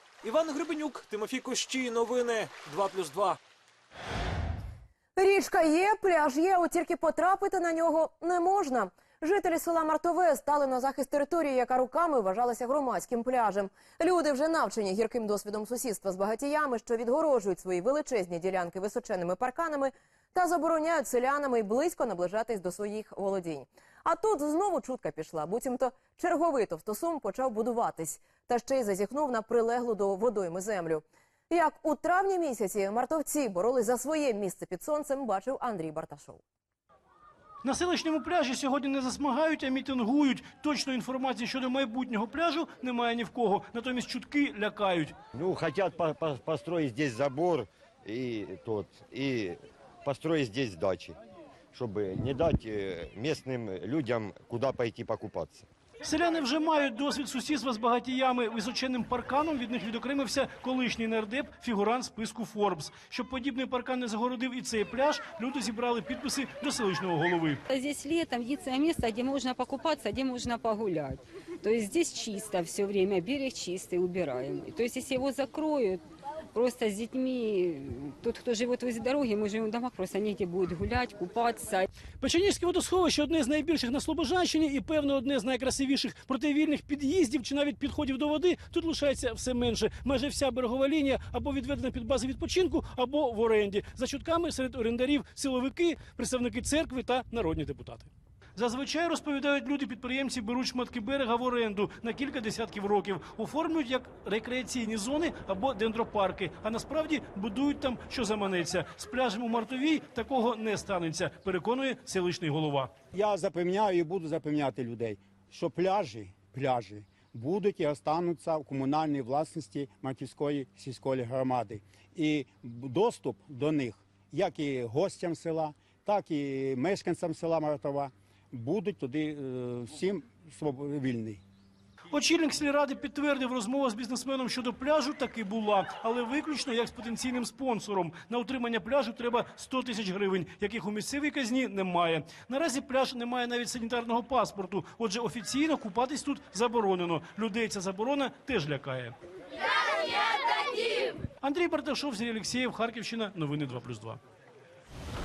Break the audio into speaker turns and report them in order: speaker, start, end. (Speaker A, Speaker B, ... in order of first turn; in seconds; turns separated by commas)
Speaker A: 0.2-3.4, Speaker B: 5.2-36.4, Speaker C: 37.6-45.1, Speaker D: 45.3-51.2, Speaker D: 51.7-55.6, Speaker C: 56.0-67.6, Speaker E: 67.7-76.0, Speaker E: 76.5-81.8, Speaker C: 82.2-112.9, Speaker F: 113.1-131.4, Speaker C: 132.1-149.2, Speaker C: 151.4-154.2